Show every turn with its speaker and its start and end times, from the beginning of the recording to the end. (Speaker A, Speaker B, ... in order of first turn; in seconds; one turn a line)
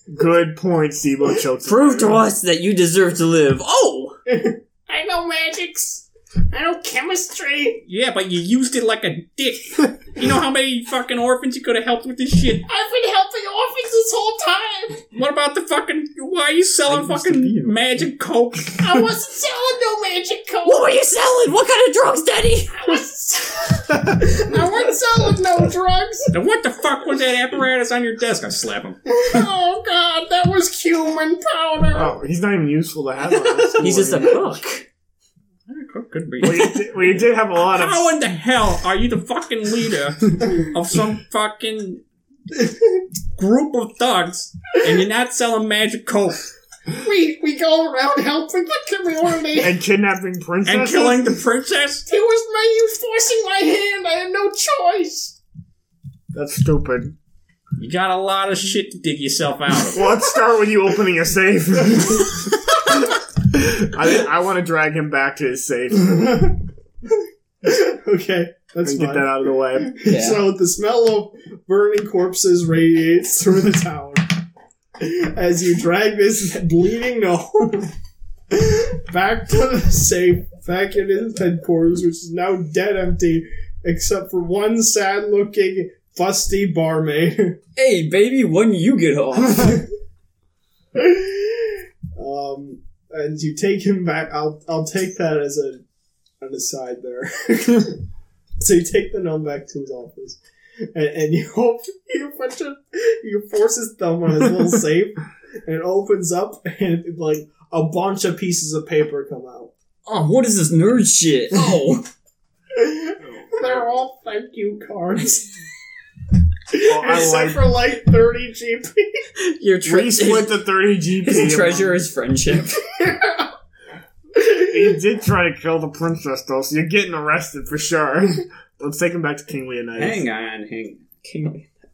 Speaker A: 0.1-2.2
Speaker B: 1.6-4.2
Speaker C: 4.3-7.8
Speaker D: 7.8-12.7
Speaker C: 12.7-15.0
Speaker D: 15.1-19.1
Speaker B: 16.9-17.7
Speaker C: 18.8-20.8
Speaker B: 20.6-22.8
Speaker C: 22.8-26.3
Speaker D: 26.3-29.0
Speaker C: 29.1-32.1
Speaker A: 31.9-34.5
Speaker B: 33.7-34.9
Speaker D: 35.7-42.0
Speaker A: 36.4-38.1
Speaker D: 43.4-46.5
Speaker C: 47.0-49.7
Speaker A: 49.5-51.4
Speaker D: 50.6-52.1
Speaker C: 52.1-55.3
Speaker A: 56.3-57.1
Speaker D: 57.8-60.1
Speaker A: 59.9-62.4
Speaker A: 63.5-66.2
Speaker C: 66.1-66.5
Speaker C: 67.6-74.3
Speaker A: 68.8-70.0
Speaker B: 70.0-70.5
Speaker C: 75.0-77.9
Speaker C: 78.5-87.6
Speaker B: 87.8-89.8
Speaker C: 90.9-95.8
Speaker C: 96.4-98.0
Speaker C: 98.6-100.4
Speaker C: 100.9-109.7
Speaker B: 110.0-112.0
Speaker C: 112.8-115.6
Speaker A: 113.2-113.8
Speaker C: 116.7-119.2
Speaker A: 116.8-117.7
Speaker B: 119.4-120.6
Speaker A: 119.8-122.0
Speaker B: 121.2-122.8
Speaker C: 123.0-123.3
Speaker A: 124.6-130.2
Speaker D: 129.9-131.1
Speaker B: 131.2-131.7